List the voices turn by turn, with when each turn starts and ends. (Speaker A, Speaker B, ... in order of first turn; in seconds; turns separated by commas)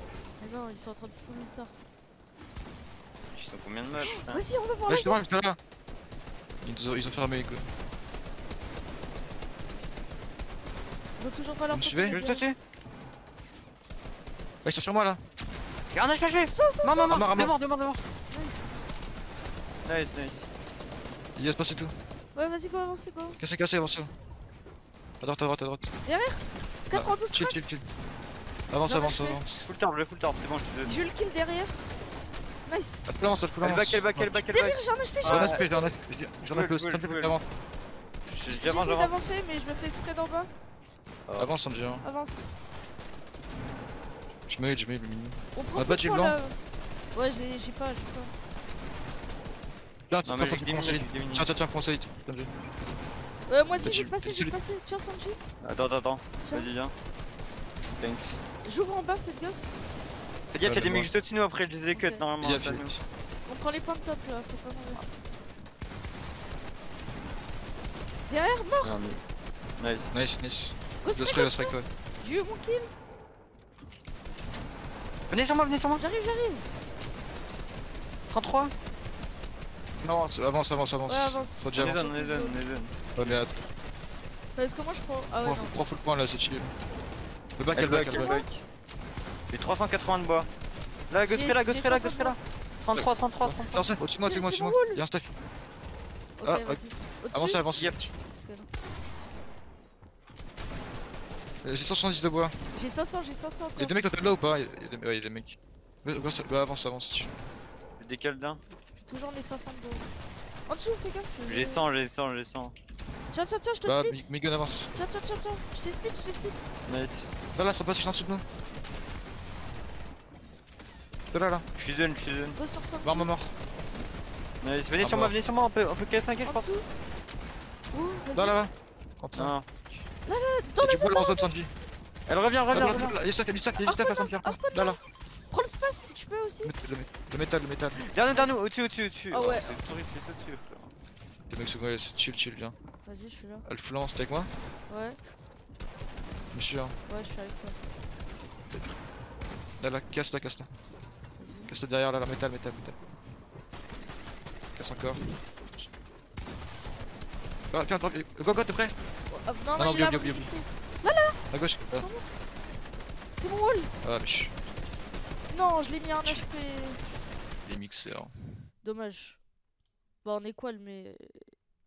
Speaker A: 0.4-1.7, Speaker B: 3.3-4.5, Speaker C: 3.9-4.2, Speaker A: 4.0-5.2, Speaker C: 4.9-5.6, Speaker C: 6.6-7.7, Speaker A: 11.2-12.4, Speaker C: 11.7-12.2, Speaker B: 12.1-12.6, Speaker C: 14.6-15.2, Speaker B: 15.9-18.0, Speaker A: 16.5-17.3, Speaker C: 17.1-17.6, Speaker A: 18.3-18.7, Speaker B: 19.9-20.5, Speaker C: 21.4-22.0, Speaker A: 22.3-23.4, Speaker C: 23.4-24.1, Speaker C: 25.2-25.9, Speaker A: 26.1-27.6, Speaker C: 26.9-27.9, Speaker C: 28.7-29.8, Speaker A: 28.9-29.4, Speaker B: 29.7-30.9, Speaker A: 30.8-31.9, Speaker A: 32.6-33.2, Speaker C: 33.1-34.5, Speaker B: 33.6-35.9, Speaker A: 34.5-35.6, Speaker C: 35.2-37.5, Speaker B: 36.5-37.4, Speaker B: 38.2-39.2, Speaker A: 38.5-40.5, Speaker B: 41.3-41.6, Speaker C: 41.4-42.0, Speaker A: 42.0-42.6, Speaker C: 44.5-46.4, Speaker A: 45.5-46.6, Speaker A: 47.1-48.3, Speaker C: 50.1-52.5, Speaker B: 50.2-51.5, Speaker A: 53.5-55.4, Speaker C: 53.8-54.5, Speaker B: 55.6-56.9, Speaker A: 56.4-56.7, Speaker B: 58.0-58.4, Speaker A: 58.6-59.6, Speaker B: 60.5-63.0, Speaker C: 60.6-61.1, Speaker A: 61.9-62.2, Speaker C: 62.4-63.0, Speaker A: 63.5-65.0, Speaker A: 68.3-69.0, Speaker B: 68.8-69.2, Speaker B: 69.8-70.1, Speaker C: 70.1-71.9, Speaker A: 71.0-72.9, Speaker B: 75.3-76.0, Speaker A: 76.0-76.7, Speaker B: 78.3-78.7, Speaker C: 80.0-82.0, Speaker A: 81.1-82.6, Speaker B: 81.7-83.3, Speaker C: 83.2-83.6, Speaker A: 84.5-85.8, Speaker C: 85.4-86.7, Speaker C: 87.6-88.4, Speaker B: 87.7-88.6, Speaker A: 88.1-88.5, Speaker B: 89.5-90.5, Speaker B: 91.1-93.8, Speaker A: 91.3-92.4, Speaker C: 92.9-95.3, Speaker A: 94.2-95.0, Speaker A: 96.4-97.6, Speaker C: 96.4-98.1, Speaker A: 98.4-98.7, Speaker C: 101.6-102.6, Speaker A: 102.7-104.0, Speaker C: 103.8-107.3, Speaker B: 108.0-108.6, Speaker A: 109.0-110.1, Speaker A: 110.7-111.8, Speaker B: 111.5-112.8, Speaker A: 113.3-114.3, Speaker C: 113.9-114.9, Speaker A: 114.9-116.7, Speaker B: 116.9-117.3, Speaker C: 117.5-118.5, Speaker C: 121.3-121.7, Speaker B: 121.8-122.6, Speaker A: 122.5-123.3, Speaker C: 123.0-123.6, Speaker B: 124.6-126.7, Speaker C: 125.0-125.3, Speaker A: 126.5-126.9, Speaker A: 127.9-128.6, Speaker C: 128.3-129.5, Speaker B: 129.3-130.1, Speaker A: 130.2-131.5, Speaker C: 130.8-131.7, Speaker B: 132.3-133.2, Speaker C: 132.7-135.0, Speaker A: 133.8-136.7, Speaker C: 136.6-138.0, Speaker B: 138.0-140.9, Speaker A: 139.3-139.8, Speaker C: 141.5-142.8, Speaker A: 143.1-143.7, Speaker C: 143.7-144.5, Speaker A: 144.9-145.2, Speaker C: 146.5-147.0, Speaker A: 147.1-147.8, Speaker C: 148.7-149.0, Speaker C: 149.8-150.7, Speaker A: 151.4-151.7, Speaker C: 151.7-153.0, Speaker C: 154.7-155.9, Speaker C: 157.7-158.9, Speaker A: 159.3-162.3, Speaker C: 159.8-160.5, Speaker C: 161.5-162.1, Speaker A: 163.3-163.9, Speaker C: 164.0-164.5, Speaker A: 165.5-167.0, Speaker C: 167.7-168.4, Speaker A: 168.8-169.4, Speaker A: 170.2-171.5